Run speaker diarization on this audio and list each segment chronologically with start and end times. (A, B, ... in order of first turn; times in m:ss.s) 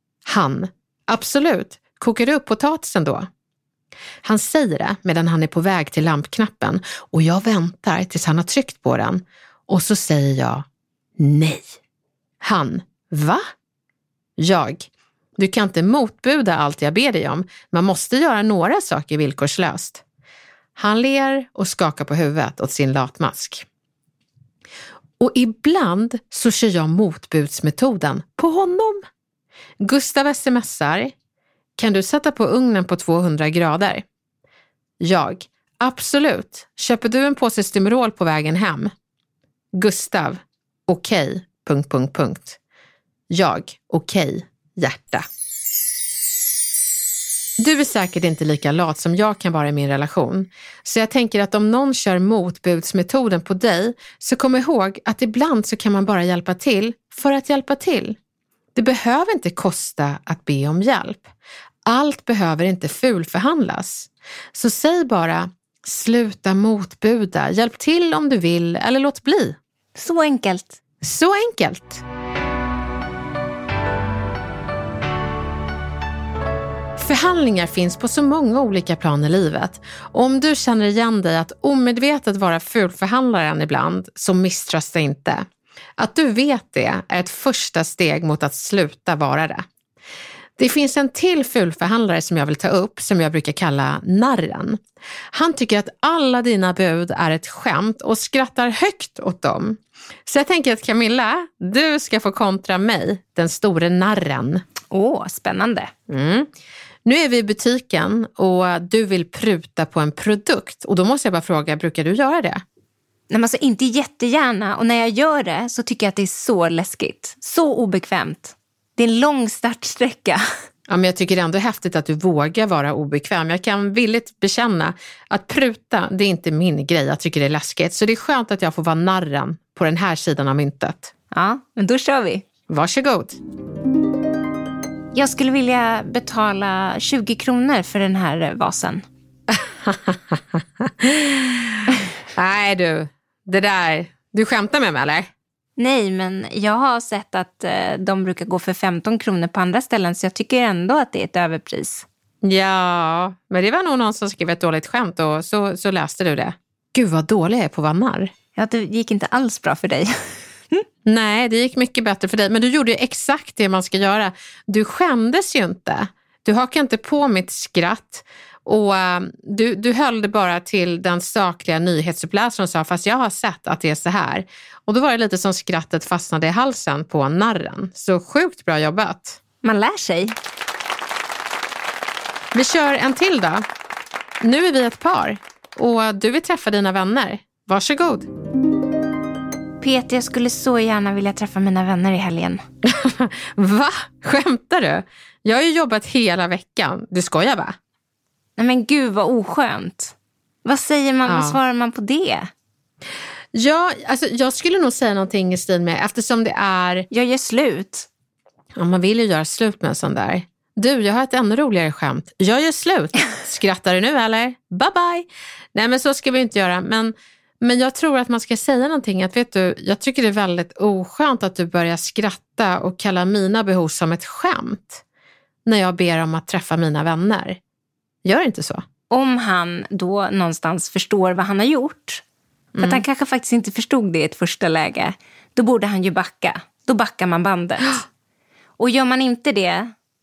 0:00.2-0:03.3 A
0:04.2-0:10.6 A
0:11.2-0:11.8 A
0:12.4-0:13.4 A
0:14.4-0:20.0 A
0:20.8-0:23.6 A
0:25.2-0:29.0 A
0:29.8-0:31.1 A
0:31.8-0:34.0 A
0:35.0-0:38.9 A
0:39.7-0:42.6 A
0:43.3-0:45.2 A
0:47.6-0:58.2 A
0:58.7-1:01.3 A
1:01.8-1:09.6 A
1:09.9-1:10.8 B
1:11.0-1:12.0 A
1:17.0-1:25.4 A
1:26.0-1:29.6 A
1:30.6-1:34.8 A
1:35.3-1:44.6 A
1:44.9-1:45.9 B
1:46.1-1:46.5 A
1:47.0-1:52.6 A
1:53.3-2:00.4 B
2:00.9-2:11.1 A
2:11.3-2:12.4 B
2:12.7-2:13.4 A
2:15.1-2:19.0 B
2:19.5-2:25.3 A
2:25.8-2:32.0 B
2:32.4-2:38.3 A
2:38.6-2:40.1 B
2:41.0-2:59.4 A
2:59.6-3:00.3 B
3:02.5-3:03.6 A
3:04.4-3:08.3 A
3:09.8-3:12.6 B
3:12.8-3:17.8 A
3:18.6-3:22.5 B
3:21.2-3:21.6 A
3:23.5-3:27.1 A
3:27.1-3:28.1 B
3:28.7-3:45.0 A
3:45.6-3:47.6 A
3:48.2-3:48.8 A
3:49.1-3:52.2 B
3:52.7-3:53.0 A
3:52.8-3:58.0 B
3:58.8-3:59.9 B